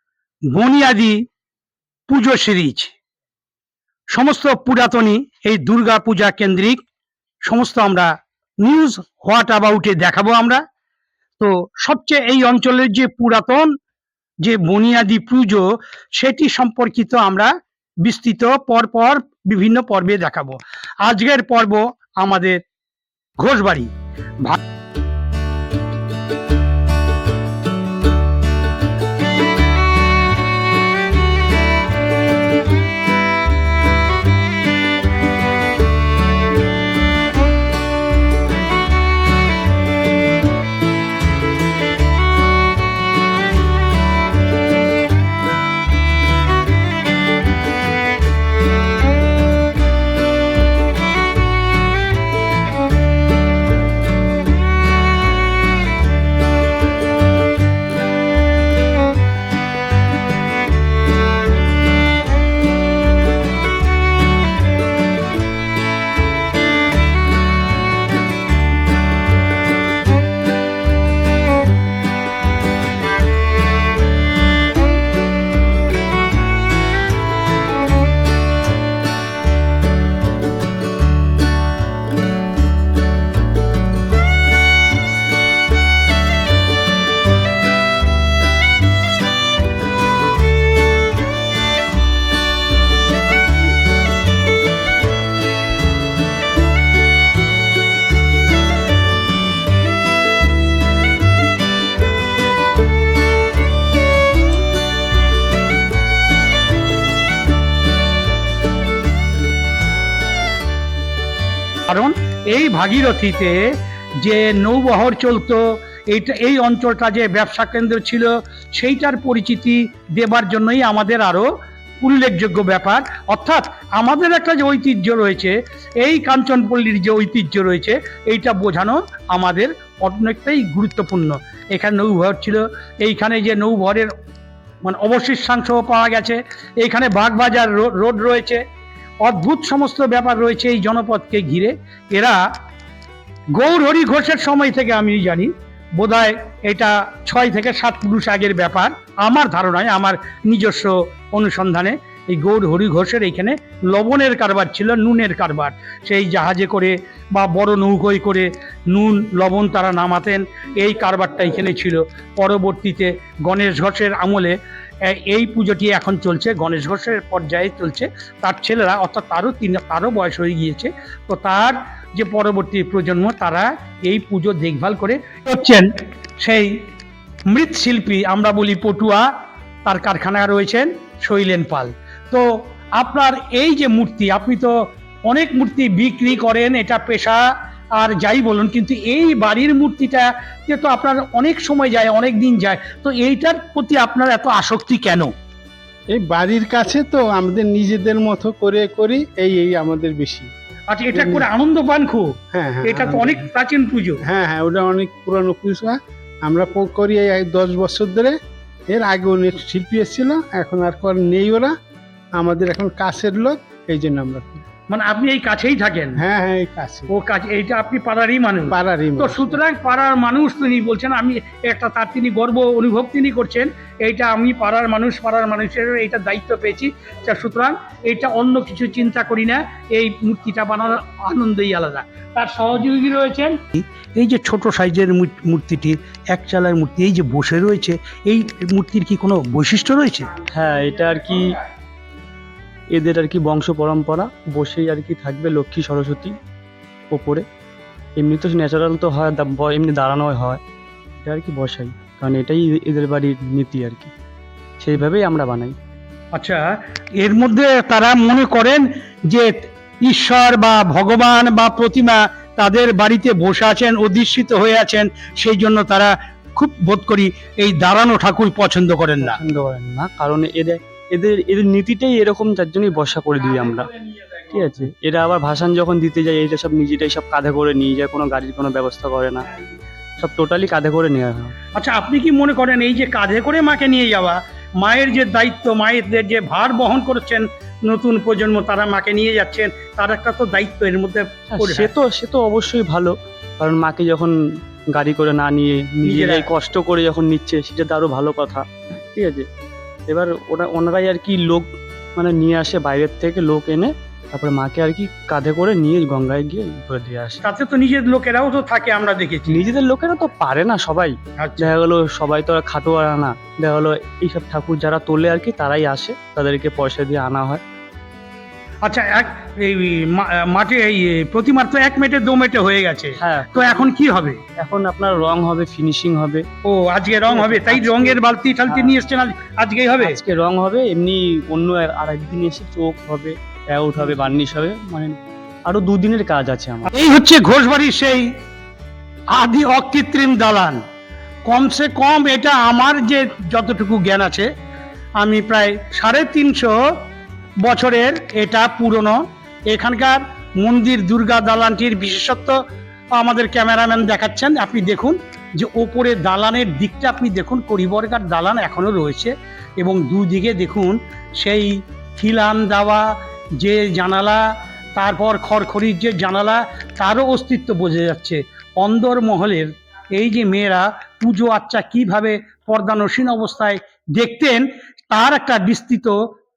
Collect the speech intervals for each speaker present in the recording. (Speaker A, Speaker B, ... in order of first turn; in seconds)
Speaker A: 0.5-1.2, 2.1-2.9, 4.1-6.8, 7.5-10.6, 11.4-13.7, 14.4-15.7, 16.2-17.5, 18.0-22.6, 23.4-23.9, 111.9-113.7, 114.2-121.5, 122.0-134.1, 134.8-138.6, 139.2-142.4, 143.6-164.5, 165.1-175.9, 176.4-176.8, 177.5-179.3, 179.8-182.5, 183.0-184.7, 185.3-187.4, 188.0-195.3, 200.9-202.3, 202.8-204.2, 214.9-216.2, 217.1-240.4, 256.3-269.4, 281.7-291.9, 296.0-296.5, 307.4-309.6, 311.4-311.7, 318.8-324.4, 326.6-330.2, 336.9-338.3, 339.4-340.8, 341.5-344.5, 345.2-346.8, 347.6-352.6, 353.2-364.4, 365.0-376.2
Speaker B: 196.1-200.5, 201.1-201.5, 202.5-203.5, 204.3-208.4, 208.9-211.7, 212.3-214.6, 216.2-217.1, 218.7-219.6
Speaker C: 240.5-241.6, 242.9-246.3, 247.1-247.4, 248.2-250.6, 251.2-254.1, 254.8-255.8, 269.2-279.5, 280.2-281.6, 291.5-294.4, 294.9-299.5, 300.1-307.4, 309.5-317.6, 323.2-323.9, 324.6-326.4, 327.3-329.0, 330.0-336.9